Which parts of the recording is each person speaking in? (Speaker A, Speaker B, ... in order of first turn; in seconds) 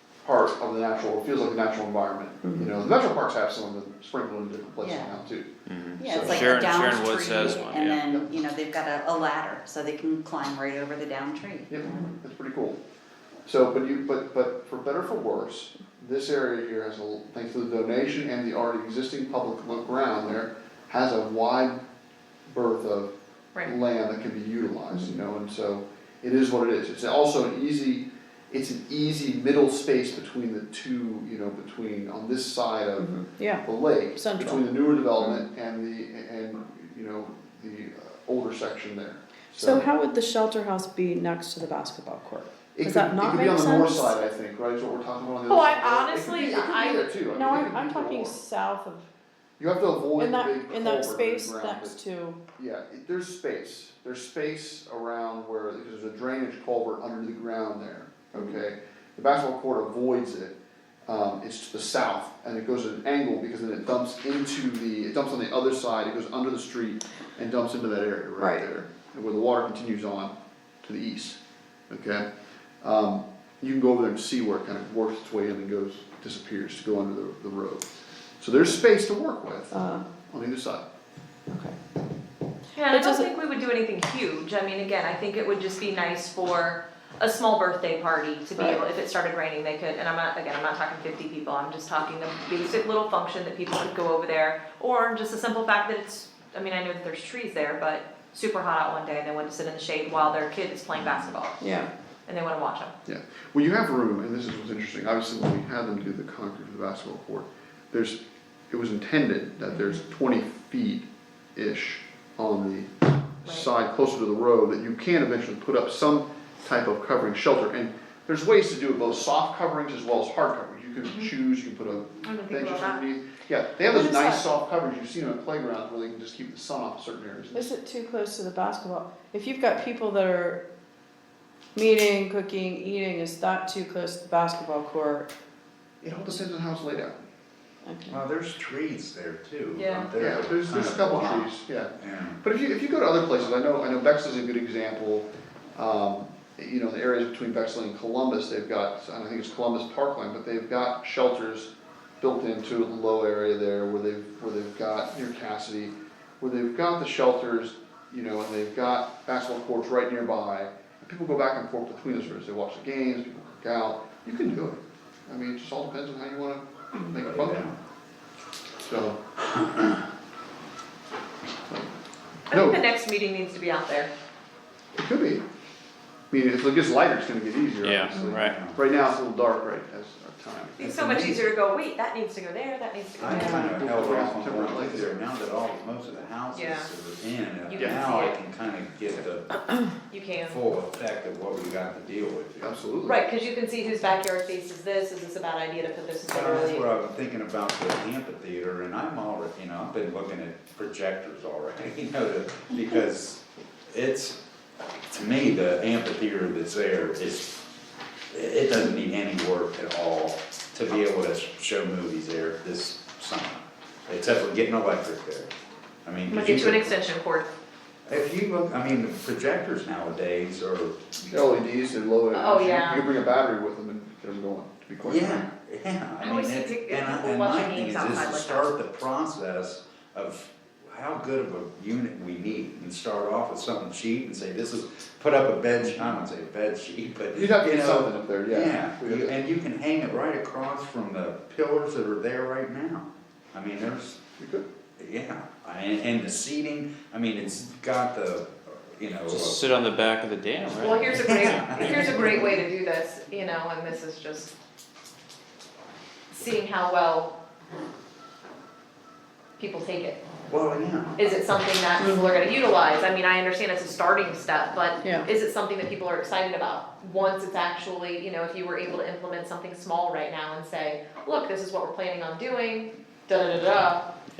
Speaker A: 0.2-6.8, 7.5-8.3, 11.7-12.8, 13.4-21.8, 22.5-33.1, 33.6-39.9, 42.7-48.3, 49.6-52.0, 52.5-60.5, 61.0-71.4, 71.9-72.2, 72.8-77.8, 78.4-79.7, 80.3-80.8, 103.0-108.2, 108.7-127.7, 136.0-137.2, 140.2-151.7, 152.2-167.6, 168.8-169.2, 172.5-172.8, 175.0-175.4, 176.3-181.2, 183.3-185.1, 192.6-193.2, 221.3-225.5, 237.3-239.3, 244.4-244.6
Speaker B: 2.4-2.7, 33.0-34.6, 39.5-44.1, 47.3-49.1, 50.2-52.4, 68.4-68.7, 79.7-80.0, 81.5-81.8, 82.8-83.3, 101.6-101.9, 123.9-124.5, 127.5-130.6, 131.7-135.3, 137.8-138.2, 262.0-262.2, 265.0-265.3
Speaker C: 4.8-5.1, 6.0-12.1
Speaker D: 5.7-8.0, 177.8-178.6, 249.3-251.1
Speaker E: 45.5-47.1, 82.7-102.9, 121.0-121.3, 122.2-123.0, 139.7-140.1, 172.5-174.1, 180.8-183.8, 186.5-186.9, 187.7-188.4, 190.1-190.6, 193.0-196.9, 216.3-217.5, 222.3-223.1, 226.2-228.7, 250.7-254.5, 256.3-257.3, 259.6-260.2, 261.2-274.0
Speaker F: 138.1-142.4, 167.1-167.8, 178.3-178.8, 180.8-181.4, 183.2-189.6, 190.5-192.7, 196.2-204.4, 205.1-207.6, 208.3-215.5, 216.0-216.9, 218.1-221.4, 225.0-244.2, 245.0-249.8, 251.1-252.6, 260.5-261.2